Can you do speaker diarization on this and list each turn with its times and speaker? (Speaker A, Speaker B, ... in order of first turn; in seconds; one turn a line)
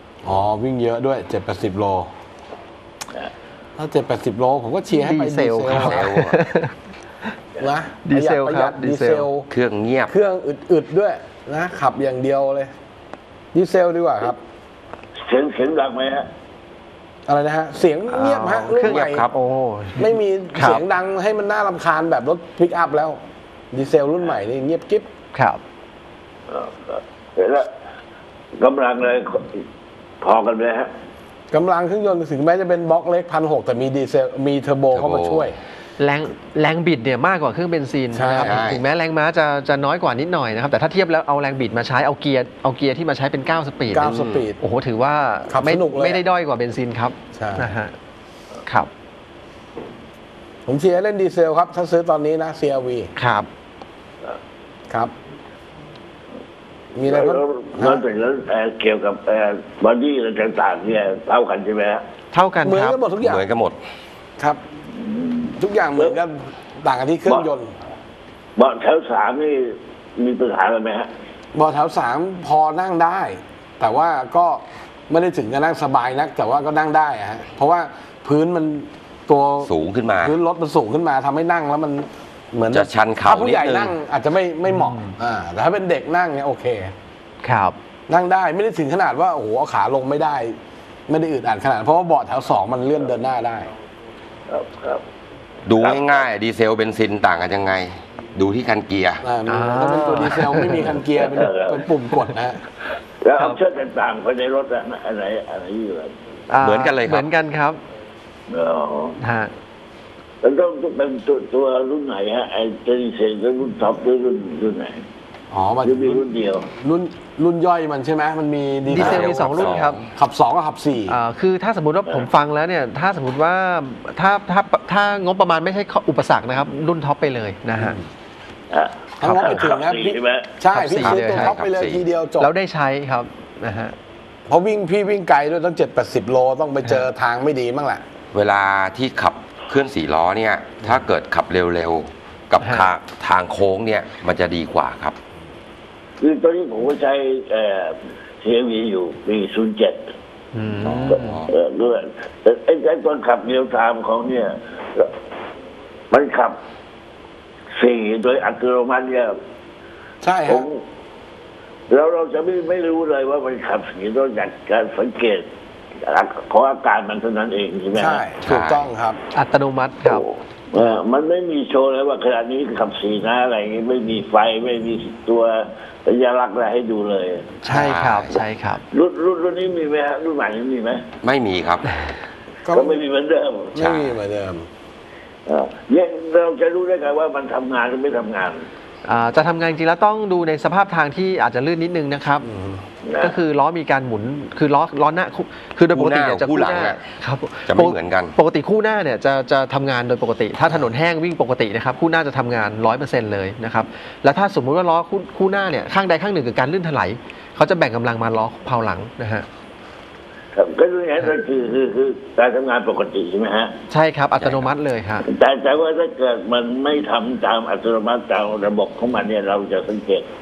Speaker A: 0.2-2.1
Speaker A: 3.8-6.1
Speaker B: 4.9-6.7
Speaker C: 5.6-6.4
Speaker A: 7.6-9.5
Speaker B: 8.1-9.3
Speaker C: 9.5-10.1
Speaker A: 10.1-12.7
Speaker A: 13.5-14.4
Speaker D: 15.2-16.3
Speaker A: 17.3-19.3
Speaker B: 18.1-20.8
Speaker C: 18.8-19.3
Speaker A: 19.9-23.2
Speaker A: 23.7-25.1
Speaker B: 25.3-25.6
Speaker D: 26.5-27.7
Speaker D: 28.6-29.6
Speaker D: 30.2-30.9
Speaker A: 31.5-35.6
Speaker C: 34.9-35.5
Speaker B: 36.0-47.9
Speaker A: 38.1-38.6
Speaker C: 38.4-38.8
Speaker A: 43.9-44.6
Speaker C: 44.1-44.4
Speaker A: 45.5-46.2
Speaker A: 47.3-47.7
Speaker A: 50.6-53.1
Speaker B: 53.2-53.5
Speaker A: 56.9-58.0
Speaker D: 57.0-62.0
Speaker B: 62.3-63.0
Speaker A: 62.6-63.4
Speaker C: 63.2-63.8
Speaker D: 64.9-66.2
Speaker A: 65.5-67.7
Speaker D: 68.5-71.1
Speaker A: 71.5-86.9
Speaker C: 79.6-80.3
Speaker C: 82.7-83.9
Speaker B: 84.7-85.1
Speaker B: 87.4-87.8
Speaker A: 88.1-90.5
Speaker A: 91.1-93.7
Speaker D: 94.5-95.0
Speaker C: 95.7-99.2
Speaker D: 95.7-96.3
Speaker A: 99.2-102.6
Speaker B: 99.5-100.9
Speaker D: 101.1-101.9
Speaker D: 103.2-106.1
Speaker B: 106.5-107.8
Speaker C: 106.6-107.3
Speaker D: 108.5-109.2
Speaker B: 109.2-109.5
Speaker D: 110.4-115.0
Speaker A: 115.5-121.2
Speaker D: 115.8-116.7
Speaker B: 118.9-120.0
Speaker C: 119.0-120.1
Speaker B: 121.1-128.0
Speaker A: 127.8-128.1
Speaker D: 128.7-130.5
Speaker A: 129.2-132.5
Speaker B: 129.2-129.7
Speaker B: 130.7-131.6
Speaker C: 131.0-132.0
Speaker B: 132.4-133.9
Speaker A: 134.5-138.0
Speaker C: 138.3-145.2
Speaker B: 142.6-142.9
Speaker D: 146.2-150.0
Speaker B: 150.5-151.5
Speaker C: 150.8-151.5
Speaker D: 151.1-155.1
Speaker D: 156.1-156.6
Speaker D: 157.7-159.4
Speaker A: 160.2-160.7
Speaker D: 160.4-160.8
Speaker D: 161.9-165.5
Speaker D: 166.0-168.2
Speaker A: 167.9-169.2
Speaker C: 168.4-168.8
Speaker B: 169.3-170.9
Speaker D: 170.0-177.5
Speaker B: 177.6-178.8
Speaker A: 177.7-177.9
Speaker C: 177.7-178.4
Speaker D: 178.9-181.0
Speaker C: 181.2-181.9
Speaker A: 182.6-183.0
Speaker D: 182.7-183.8
Speaker A: 183.7-184.7
Speaker C: 183.8-184.1
Speaker D: 185.4-188.7
Speaker B: 189.0-192.5
Speaker A: 192.4-192.8
Speaker D: 193.0-193.4
Speaker B: 193.2-209.5
Speaker C: 195.9-197.0
Speaker C: 197.7-198.3
Speaker D: 210.5-213.7
Speaker B: 213.9-215.3
Speaker C: 214.4-214.7
Speaker D: 215.2-220.3